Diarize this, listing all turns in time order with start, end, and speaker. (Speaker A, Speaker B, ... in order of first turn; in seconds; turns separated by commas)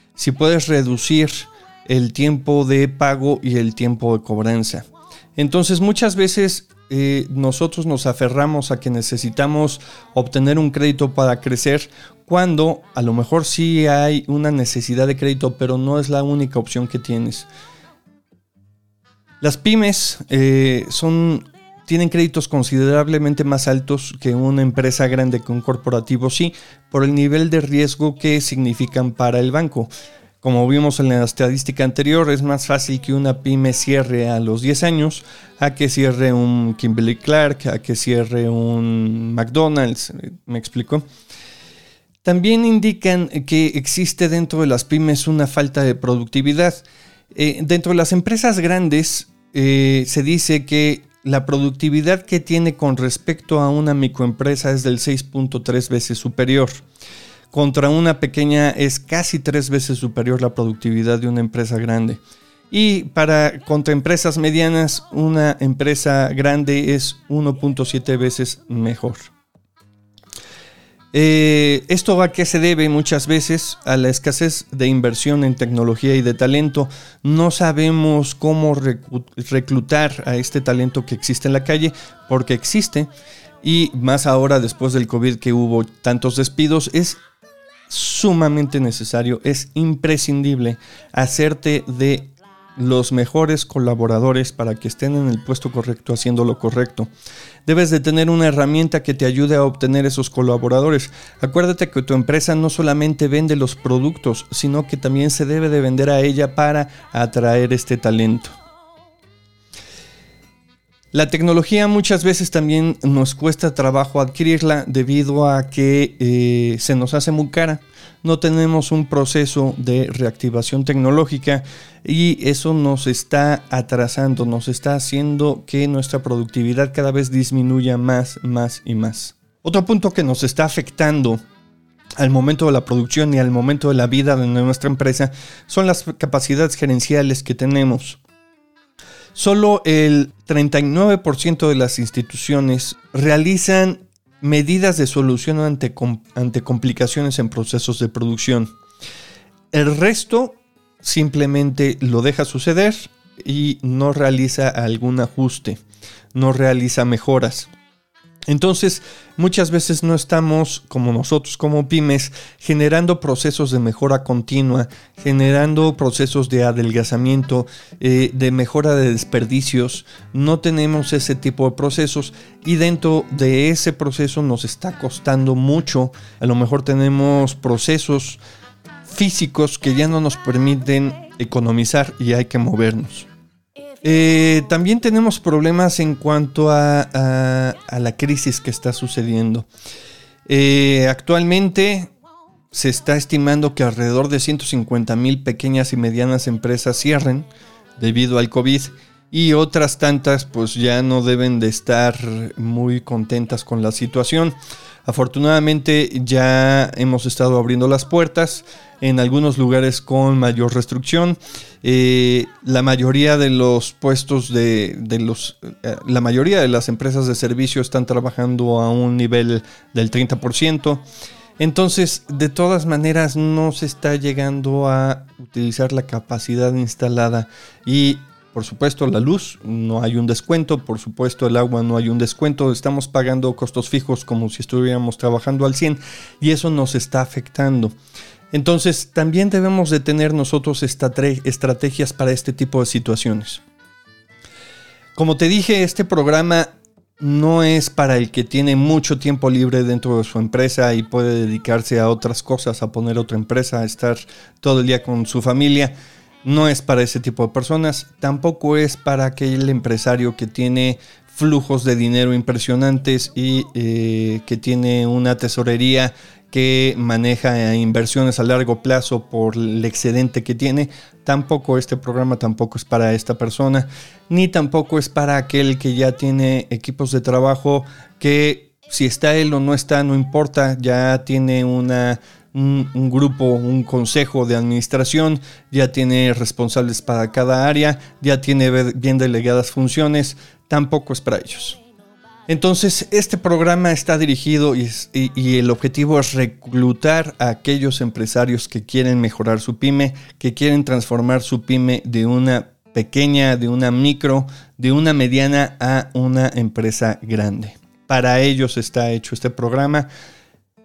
Speaker A: 0.2-17.5, Speaker A: 19.4-29.9, Speaker A: 30.4-41.0, Speaker A: 42.2-56.8, Speaker A: 57.5-69.3, Speaker A: 71.1-83.1, Speaker A: 83.6-87.2, Speaker A: 87.9-97.1, Speaker A: 97.7-108.6, Speaker A: 111.1-131.4, Speaker A: 132.2-138.2, Speaker A: 139.3-148.7, Speaker A: 149.7-155.8, Speaker A: 156.3-157.7, Speaker A: 158.5-178.4, Speaker A: 179.1-183.3, Speaker A: 184.0-189.7, Speaker A: 190.5-192.1, Speaker A: 192.7-221.1, Speaker A: 221.6-237.9, Speaker A: 238.5-243.6, Speaker A: 245.2-291.8, Speaker A: 292.5-310.1